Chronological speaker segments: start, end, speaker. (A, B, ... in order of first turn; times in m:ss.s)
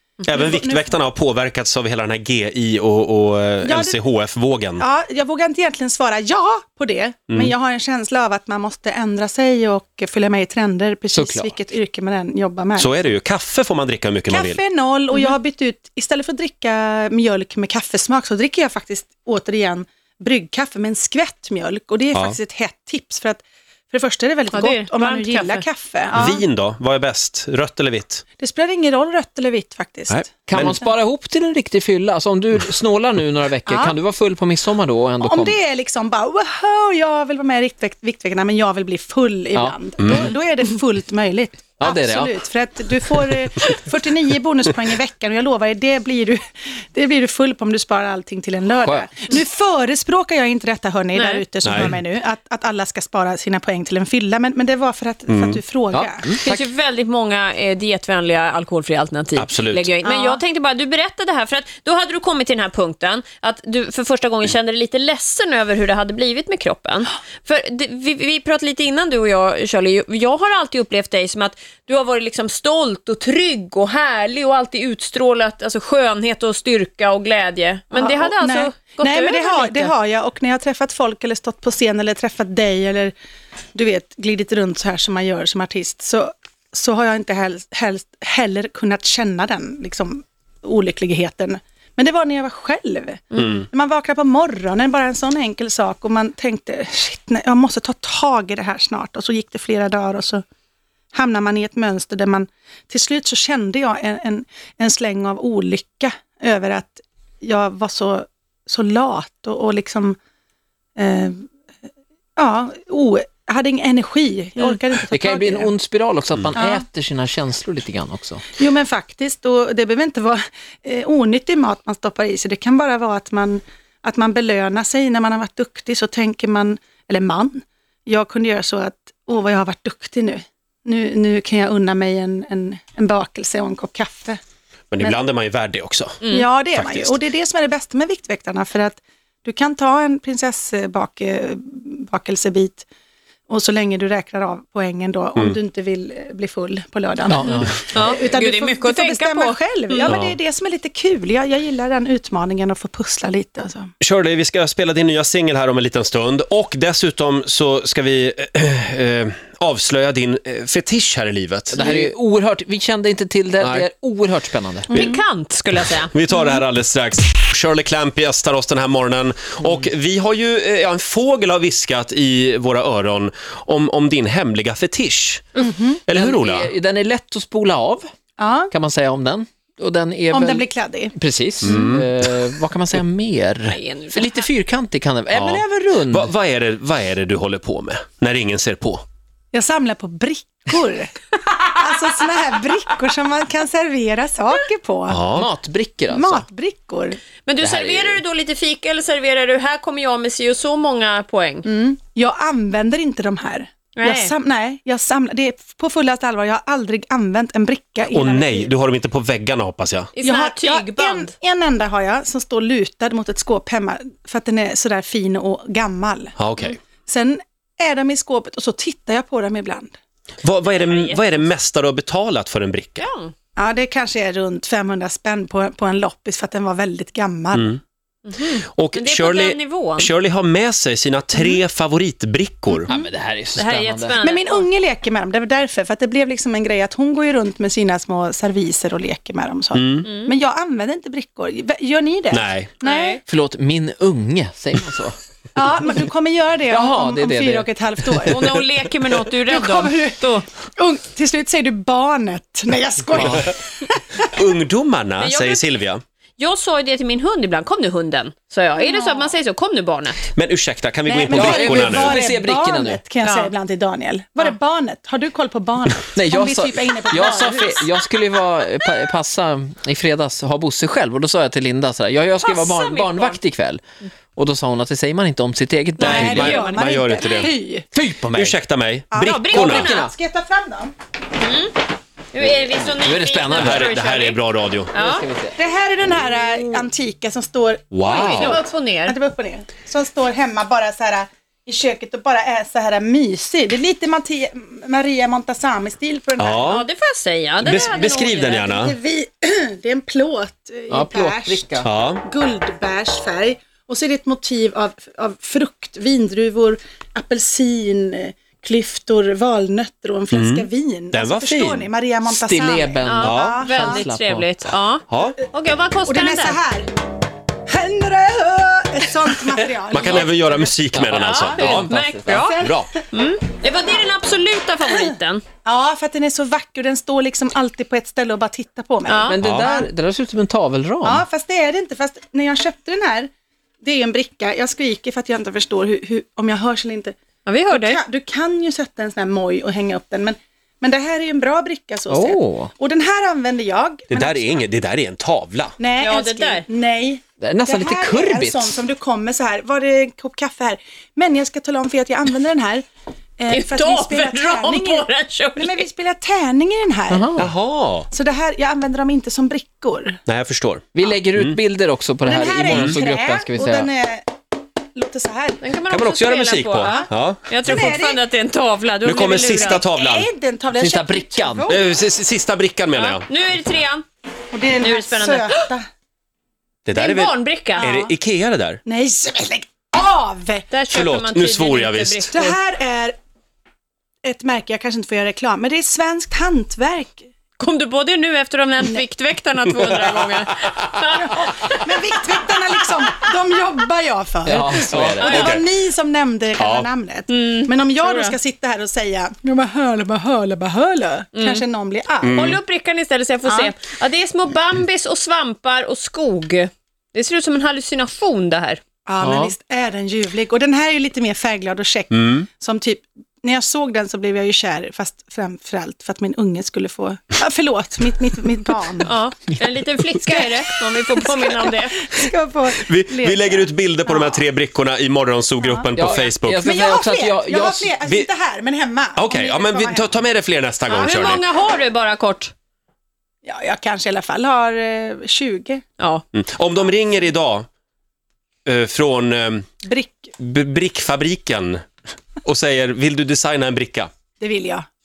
0:00.3-0:04.8 A
0:00.3-0:01.0 B
0:03.6-0:04.0 B
0:04.8-0:13.0 B
0:11.1-0:11.6 C
0:12.8-0:14.6 A
0:14.3-0:26.4 B
0:24.5-0:25.6 D
0:26.2-0:28.2 A
0:28.4-0:30.4 B
0:30.1-0:30.8 A
0:30.5-0:35.6 C
0:33.7-0:34.0 B
0:35.2-0:46.4 B
0:39.6-0:40.2 C
0:40.0-0:40.3 A
0:41.8-0:42.4 C
0:46.9-0:56.6 B
0:48.8-0:49.2 C
0:51.2-0:51.4 D
0:51.6-0:52.0 A
0:55.3-0:55.6 A
0:55.9-0:56.4 C
0:56.4-1:19.9 D
0:59.4-0:59.9 A
1:00.0-1:00.4 B
1:17.9-1:23.1 B
1:23.7-1:40.4 B
1:41.1-1:50.2 B
1:51.0-1:51.4 B
1:52.4-1:55.7 B
1:55.1-1:58.5 C
1:56.6-1:56.8 B
1:58.6-2:14.4 B
2:14.9-2:17.2 A
2:16.2-2:16.5 D
2:16.3-2:22.9 B
2:23.5-2:33.9 B
2:27.2-2:27.9 C
2:27.9-2:30.2 D
2:30.1-2:30.4 A
2:34.0-2:42.1 A
2:41.7-2:44.9 C
2:43.6-2:43.9 A
2:44.9-2:45.2 B
2:44.9-2:46.1 D
2:46.1-2:56.7 A
2:55.6-2:56.0 B
2:56.1-2:58.1 C
2:58.4-2:58.7 B
2:58.7-3:06.3 C
3:00.3-3:01.1 B
3:01.6-3:02.1 A
3:03.7-3:04.4 D
3:05.3-3:09.0 A
3:09.5-3:15.2 B
3:15.1-3:15.5 A
3:15.3-3:16.5 C
3:16.1-3:17.2 B
3:17.4-3:21.7 D
3:17.6-3:18.2 C
3:21.6-3:28.7 B
3:24.0-3:24.3 D
3:28.1-3:30.1 A
3:30.2-3:31.3 D
3:30.2-3:36.4 B
3:36.4-3:36.8 A
3:37.1-3:40.0 B
3:40.4-3:43.1 A
3:40.7-3:41.4 D
3:43.0-3:43.3 D
3:43.6-3:47.7 B
3:47.5-3:47.8 A
3:48.2-3:50.1 D
3:48.8-3:52.9 A
3:51.4-3:51.6 B
3:52.9-3:54.2 C
3:53.6-3:54.7 D
3:54.2-4:03.2 B
3:59.7-4:00.1 A
4:00.0-4:00.3 D
4:02.3-4:02.7 A
4:02.8-4:03.2 D
4:03.2-4:05.2 C
4:05.5-4:08.4 B
4:06.7-4:08.3 C
4:08.3-4:10.5 D
4:09.5-4:14.2 B
4:13.2-4:13.5 C
4:14.3-4:16.0 A
4:15.2-4:15.6 D
4:16.4-4:20.3 D
4:18.8-4:19.3 B
4:20.3-4:22.2 A
4:21.1-4:27.9 B
4:21.3-4:23.0 C
4:23.2-4:23.5 D
4:26.1-4:33.8 C
4:32.4-4:33.4 D
4:34.4-4:36.6 C
4:36.0-4:37.5 D
4:36.0-4:37.5 A
4:36.1-4:37.9 B
4:37.9-4:38.6 C
4:38.3-4:40.0 A
4:39.1-4:40.9 B
4:39.2-4:40.1 D
4:41.4-4:41.8 D
4:42.3-4:45.2 D
4:43.0-4:44.0 C
4:43.5-4:44.9 A
4:45.0-4:45.6 C
4:45.6-4:56.8 B
4:47.9-4:48.6 A
4:48.0-4:49.2 D
4:56.4-4:56.9 A
4:56.6-4:58.6 D
4:57.6-4:59.0 A
4:58.4-5:14.1 B
5:00.9-5:01.9 C
5:01.8-5:02.2 A
5:10.3-5:11.9 A
5:12.3-5:14.5 C
5:13.0-5:16.6 D
5:13.2-5:13.6 A
5:15.1-5:15.4 A
5:16.0-5:16.9 B
5:17.7-5:20.3 B
5:19.9-5:21.9 A
5:20.9-5:22.5 C
5:21.1-5:25.4 D
5:22.3-5:23.0 B
5:22.6-5:22.9 A
5:25.6-5:29.9 B
5:29.1-5:29.4 D
5:29.3-5:31.2 C
5:29.4-5:29.7 A
5:31.0-5:33.3 B
5:33.8-5:37.2 B
5:37.5-5:38.0 D
5:37.7-5:44.6 B
5:42.1-5:42.7 C
5:44.1-5:45.8 A
5:45.8-5:52.8 B
5:46.0-5:46.7 D
5:47.4-5:48.8 C
5:53.4-5:57.3 B
5:53.5-5:55.9 D
5:57.1-5:57.5 C
5:57.4-5:58.1 A
5:58.1-6:00.2 B
6:00.3-6:01.6 A
6:01.0-6:03.9 C
6:02.2-6:04.3 B
6:02.7-6:03.0 A
6:05.0-6:05.6 B
6:05.6-6:09.8 D
6:05.9-6:07.4 A
6:06.8-6:07.1 B
6:07.6-6:08.2 B
6:09.0-6:10.3 A
6:09.7-6:11.9 B
6:10.8-6:11.7 C
6:11.7-6:13.3 A
6:12.9-6:14.0 D
6:14.5-6:15.9 B
6:14.8-6:15.7 D
6:16.9-6:18.8 A
6:16.9-6:18.0 D
6:17.8-6:18.1 B
6:18.8-6:20.7 B
6:20.7-6:22.6 D
6:20.9-6:22.3 A
6:22.3-6:23.2 B
6:24.2-6:27.3 B
6:27.6-6:31.6 D
6:31.1-6:42.5 B
6:34.4-6:35.6 C
6:35.2-6:35.6 D
6:36.6-6:36.9 A
6:37.3-6:38.4 D
6:41.3-6:41.6 D
6:42.2-6:42.6 A
6:42.3-6:48.8 D
6:43.4-6:43.8 B
6:49.1-6:59.2 B
6:49.2-6:49.5 C
6:52.1-6:52.5 A
6:59.0-7:02.0 D
7:00.2-7:00.5 B
7:01.1-7:04.5 B
7:02.8-7:06.7 A
7:05.6-7:05.9 B
7:06.0-7:08.0 C
7:06.6-7:10.2 B
7:09.2-7:11.4 A
7:10.9-7:11.4 B
7:10.9-7:12.5 D
7:13.4-7:15.8 B
7:16.0-7:16.2 D
7:16.3-7:17.7 A
7:18.6-7:19.7 A
7:19.8-7:20.3 B
7:20.4-7:21.9 A
7:22.4-7:24.1 A
7:24.4-7:24.9 B